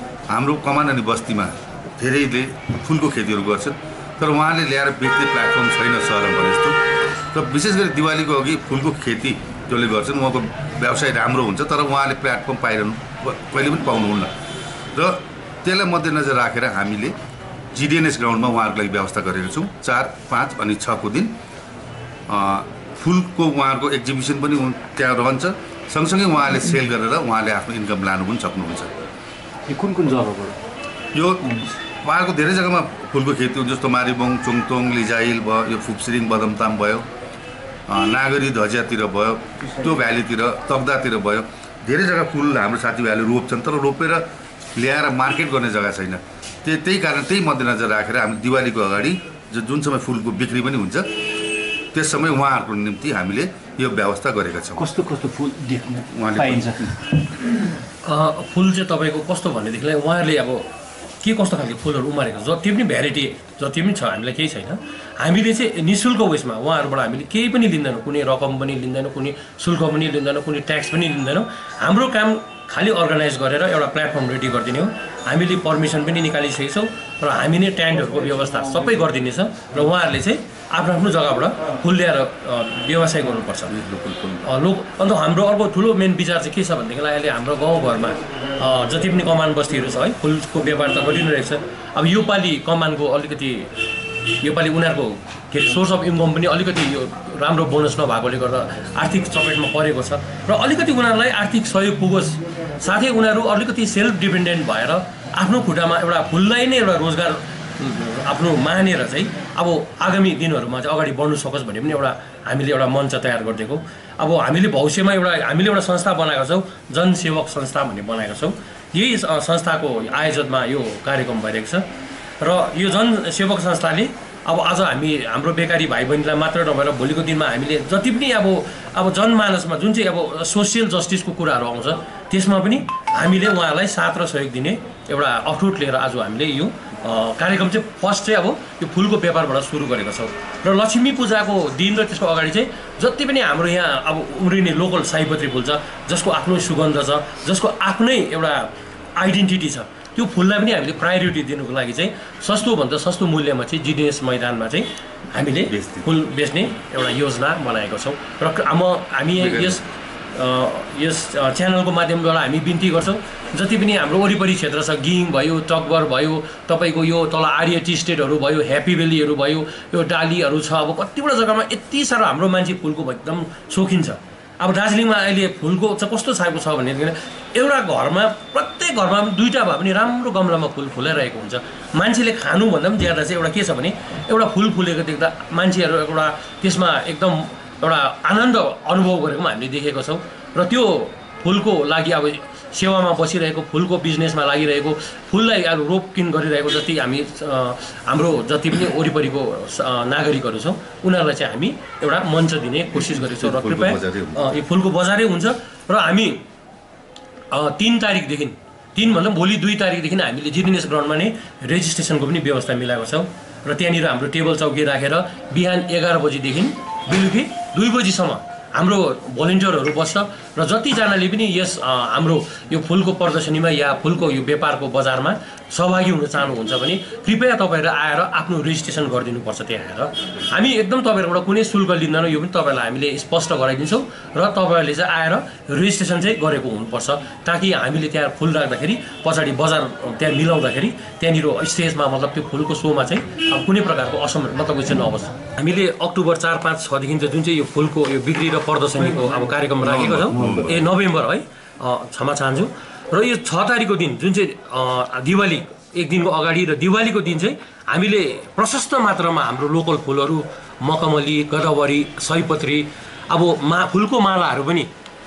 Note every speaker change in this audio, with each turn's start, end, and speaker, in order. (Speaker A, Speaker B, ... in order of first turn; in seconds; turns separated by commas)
Speaker A: 0.3-6.8, Speaker A: 7.3-14.3, Speaker A: 14.9-17.1, Speaker A: 17.7-21.3, Speaker A: 22.3-28.9, Speaker B: 29.7-30.6, Speaker A: 31.1-37.1, Speaker A: 37.9-51.2, Speaker A: 51.9-54.9, Speaker B: 54.8-56.9, Speaker A: 56.1-57.0, Speaker C: 58.0-60.7, Speaker C: 61.2-83.8, Speaker A: 83.7-84.5, Speaker C: 84.4-93.8, Speaker C: 94.4-121.9, Speaker C: 122.4-206.4, Speaker A: 155.5-156.1, Speaker A: 159.4-159.8, Speaker A: 203.3-204.5, Speaker C: 207.5-264.9, Speaker A: 249.8-250.8